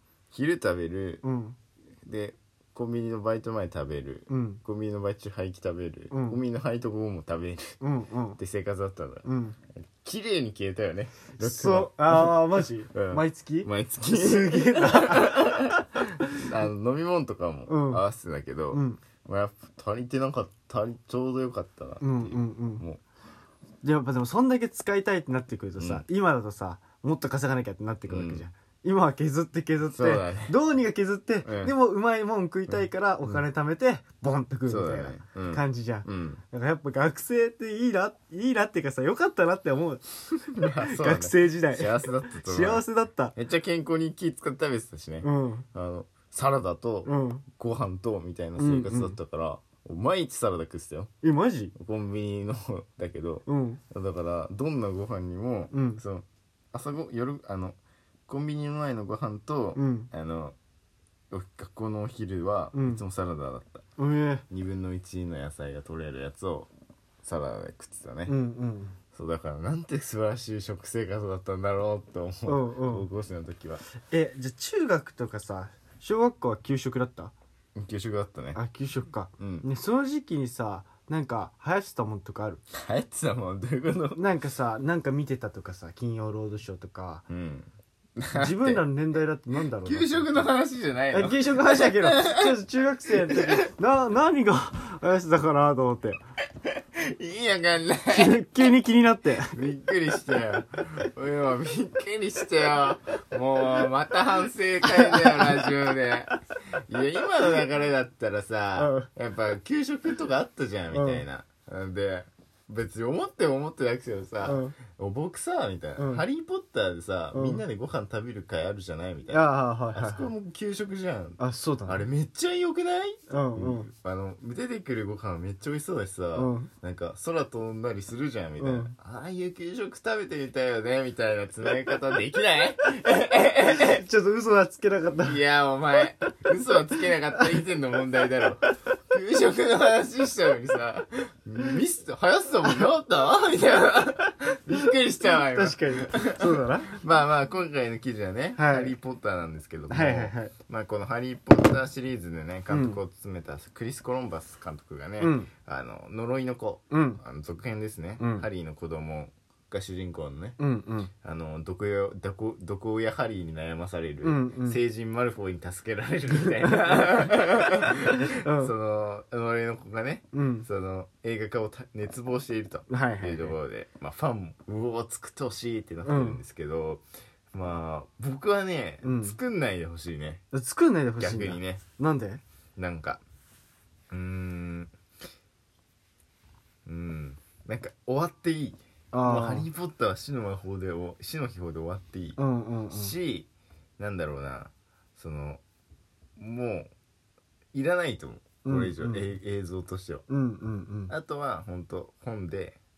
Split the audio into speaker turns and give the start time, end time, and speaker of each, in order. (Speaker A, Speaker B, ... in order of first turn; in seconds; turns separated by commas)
Speaker A: 0.3-1.2, Speaker B: 1.2-1.6, Speaker A: 2.0-7.8, Speaker B: 4.3-4.6, Speaker B: 6.1-6.4, Speaker B: 7.8-8.4, Speaker A: 8.4-9.2, Speaker B: 9.2-9.6, Speaker A: 9.8-23.0, Speaker B: 11.4-16.1, Speaker B: 17.7-18.0, Speaker B: 18.7-19.0, Speaker B: 22.0-22.8, Speaker B: 23.8-43.3, Speaker A: 25.8-26.0, Speaker A: 28.1-28.5, Speaker A: 29.9-30.5, Speaker A: 31.4-31.7, Speaker A: 32.7-33.4, Speaker A: 34.7-36.4, Speaker A: 40.5-42.8, Speaker A: 43.3-51.1, Speaker B: 45.2-45.6, Speaker B: 47.0-47.4, Speaker B: 48.6-49.2, Speaker B: 51.2-51.7, Speaker A: 51.7-57.8, Speaker B: 53.5-53.8, Speaker B: 55.7-56.0, Speaker A: 58.3-60.5, Speaker B: 59.7-60.1, Speaker A: 61.3-63.8, Speaker B: 62.7-63.0, Speaker B: 64.0-64.4, Speaker A: 64.5-66.7, Speaker A: 67.2-68.3, Speaker B: 68.3-69.0, Speaker A: 69.1-73.8, Speaker B: 72.5-73.1, Speaker B: 74.1-77.3, Speaker A: 77.8-78.6, Speaker B: 78.5-82.6, Speaker A: 79.4-79.7, Speaker A: 82.7-84.3, Speaker B: 84.1-87.2, Speaker A: 87.3-88.8, Speaker B: 88.3-90.5, Speaker A: 89.8-92.5, Speaker B: 91.1-96.2, Speaker A: 93.3-93.5, Speaker A: 96.6-98.4, Speaker B: 98.1-99.6, Speaker A: 99.5-134.0, Speaker B: 105.0-105.6, Speaker B: 108.8-109.1, Speaker B: 110.9-111.2, Speaker B: 114.4-114.8, Speaker B: 116.0-116.2, Speaker B: 117.3-117.6, Speaker B: 119.3-120.3, Speaker B: 121.4-122.1, Speaker B: 123.3-123.9, Speaker B: 126.3-126.7, Speaker B: 128.6-128.9, Speaker B: 133.6-135.4, Speaker A: 135.2-160.6, Speaker B: 145.2-147.0, Speaker B: 148.6-148.9, Speaker B: 149.9-150.5, Speaker B: 152.7-153.0, Speaker B: 155.2-155.5, Speaker B: 156.9-157.2, Speaker B: 158.2-158.5, Speaker B: 160.6-161.1, Speaker A: 161.2-180.4, Speaker B: 164.2-164.8, Speaker B: 166.6-167.3, Speaker B: 168.3-168.7, Speaker B: 170.3-170.7, Speaker B: 172.9-173.6, Speaker B: 176.0-176.4, Speaker B: 179.0-179.4, Speaker B: 180.5-182.4, Speaker A: 181.2-181.8, Speaker A: 182.8-183.2, Speaker A: 184.1-184.9, Speaker A: 186.8-192.4, Speaker B: 189.1-189.7, Speaker B: 192.4-193.1, Speaker A: 192.9-195.6, Speaker A: 196.4-196.9, Speaker A: 197.7-200.2, Speaker B: 198.6-199.3, Speaker B: 200.3-201.1, Speaker A: 201.1-202.8